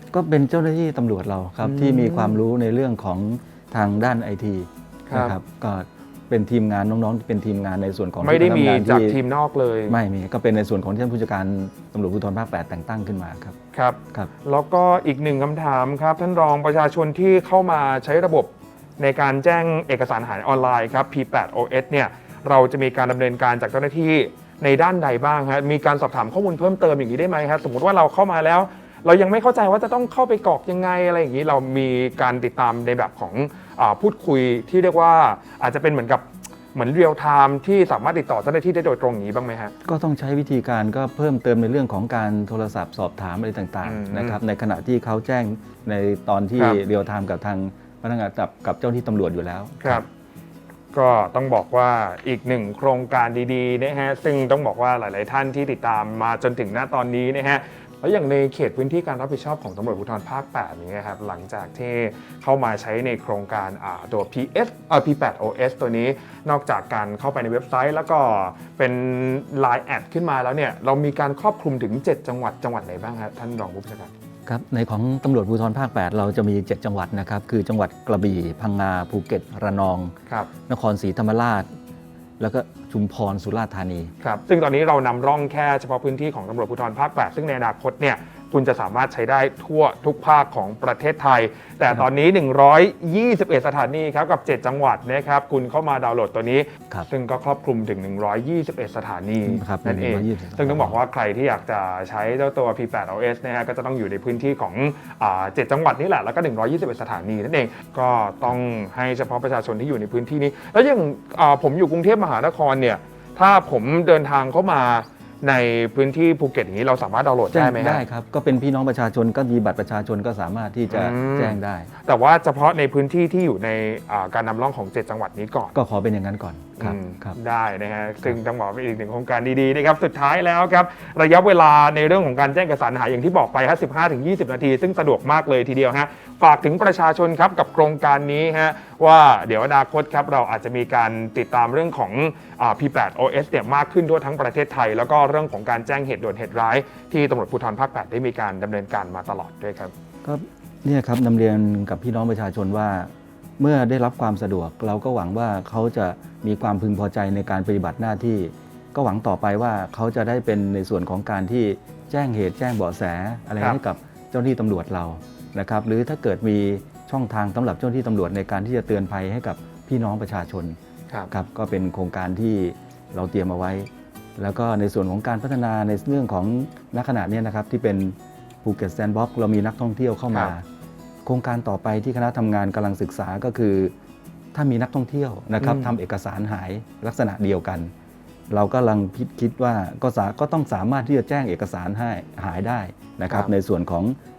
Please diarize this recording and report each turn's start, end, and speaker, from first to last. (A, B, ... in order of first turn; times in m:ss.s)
0:00.1-0:09.2 A
0:01.6-0:02.4 B
0:05.1-0:05.4 B
0:08.2-0:10.0 B
0:09.9-0:13.6 A
0:13.7-0:39.7 B
0:39.8-0:50.0 A
0:43.8-0:44.4 B
0:49.8-0:50.1 B
0:50.9-1:14.1 B
1:14.5-1:20.1 A
1:20.7-1:21.7 A
1:22.4-1:24.1 A
1:24.2-1:58.0 B
1:39.4-1:41.0 A
1:57.5-2:01.9 A
2:00.9-2:05.7 B
2:05.7-2:07.4 A
2:06.8-2:29.9 B
2:30.2-2:50.8 A
2:51.3-3:00.6 A
3:01.2-3:03.9 A
3:04.5-3:07.9 A
3:05.6-3:05.9 B
3:08.5-3:14.2 A